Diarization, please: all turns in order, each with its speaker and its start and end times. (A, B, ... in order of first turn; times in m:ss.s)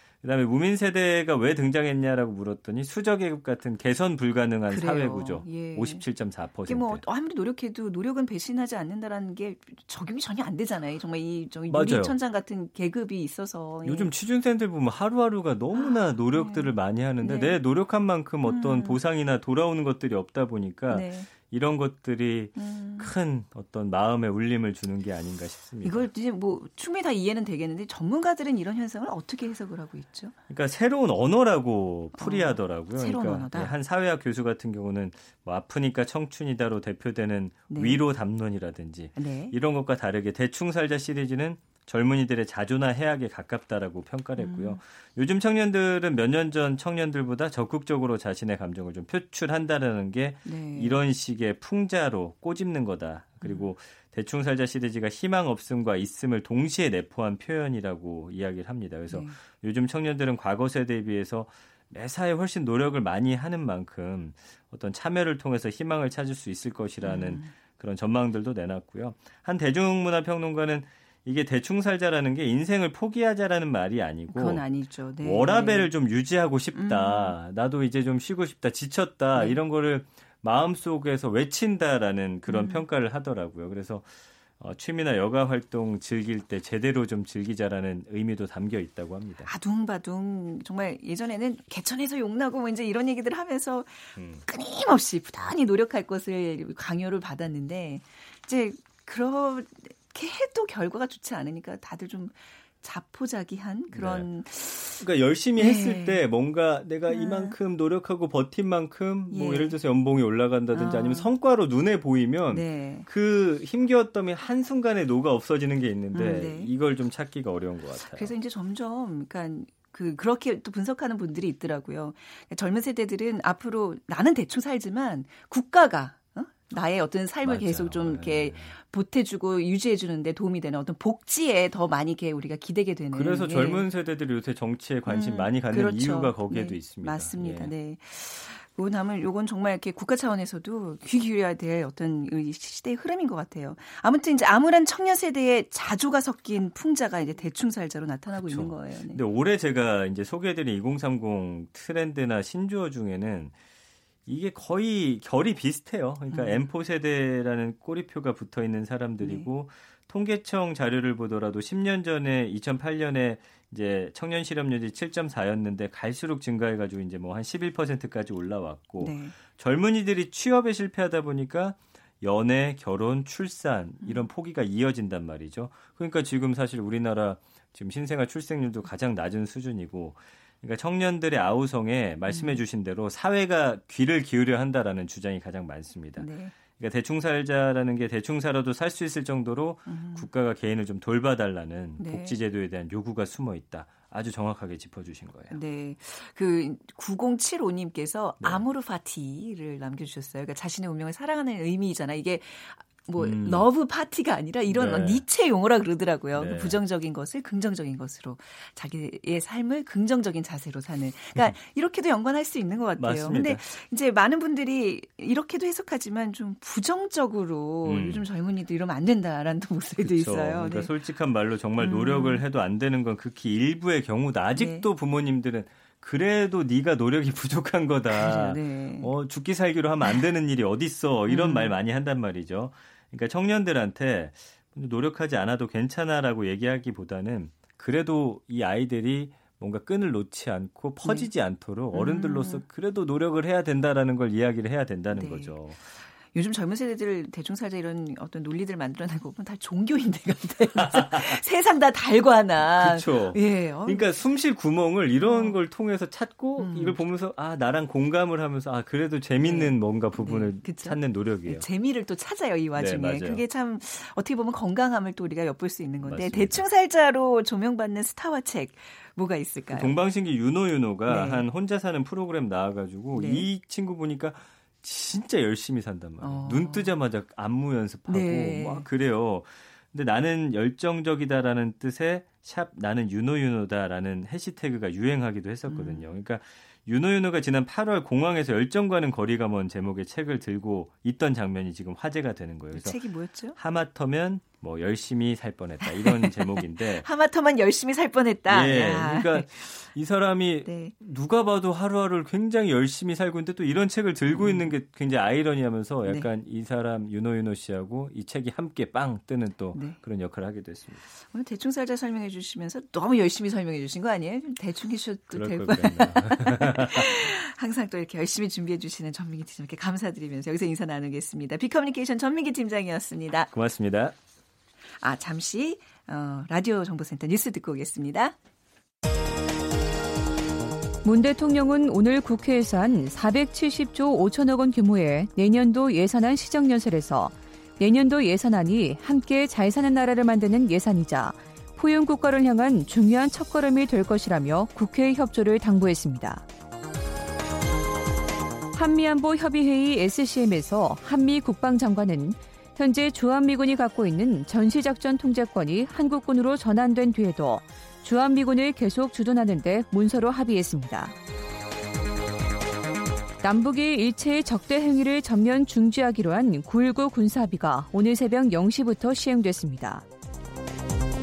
0:00.2-0:07.0 A
0:04.7-0:06.0 B
0:06.6-0:14.1 B
0:11.7-0:12.1 A
0:13.8-0:26.1 A
0:15.7-0:17.6 B
0:18.4-0:19.0 B
0:20.9-0:21.3 B
0:22.6-0:23.1 B
0:25.8-0:30.3 B
0:30.5-1:14.6 A
0:32.2-0:33.7 B
0:37.7-0:38.0 B
0:39.2-0:39.5 B
0:44.4-0:44.8 B
0:50.4-0:51.0 B
0:53.4-0:53.7 B
0:59.1-0:59.4 B
1:07.0-1:07.5 B
1:14.3-1:15.9 B
1:15.2-1:29.5 A
1:16.7-1:17.4 B
1:22.5-1:22.8 B
1:29.4-1:45.0 B
1:34.2-1:34.4 A
1:43.9-1:44.3 A
1:45.0-1:58.3 A
1:45.6-1:46.2 B
1:47.1-1:47.6 B
1:49.3-1:49.8 B
1:50.7-1:51.3 B
1:52.5-1:53.1 B
1:56.1-1:56.7 B
1:58.1-2:13.8 B
2:07.4-2:08.8 A
2:13.1-2:17.7 A
2:15.0-2:29.2 B
2:28.4-2:33.5 A
2:34.2-3:15.6 A
2:36.3-2:36.6 B
2:39.2-2:39.5 B
2:49.0-2:49.4 B
2:54.0-2:54.3 B
3:02.3-3:02.6 B
3:06.2-3:06.5 B
3:09.9-3:10.3 B
3:12.0-3:12.4 B
3:15.5-3:40.9 B
3:23.2-3:23.6 A
3:24.7-3:25.2 A
3:26.3-3:26.8 A
3:33.0-3:33.6 A
3:37.8-3:38.3 A
3:40.0-4:05.8 A
3:41.8-3:42.4 B
3:44.6-3:44.9 B
3:48.1-3:49.1 B
3:51.3-3:51.7 B
4:01.0-4:01.3 B
4:01.9-4:02.6 B
4:05.1-4:05.6 B
4:06.3-4:14.1 B
4:10.8-4:11.4 A
4:12.7-4:21.6 A
4:15.2-4:15.6 B
4:16.6-4:17.0 B
4:19.4-4:30.0 B
4:22.7-4:23.4 A
4:26.0-4:26.6 A
4:29.7-4:53.0 A
4:31.1-4:31.4 B
4:33.1-4:33.4 B
4:36.2-4:36.9 B
4:38.1-4:38.8 B
4:45.7-4:46.1 B
4:52.7-4:53.6 B
4:53.6-4:57.1 A
4:55.8-4:59.7 B
4:58.5-5:11.0 A
5:00.6-5:00.9 B
5:04.3-5:04.7 B
5:09.7-5:10.0 B
5:11.3-5:23.5 B
5:15.3-5:17.3 A
5:23.5-5:24.1 A
5:25.0-5:28.3 B
5:31.0-5:46.4 C
5:48.7-6:01.1 C
6:03.4-6:10.0 C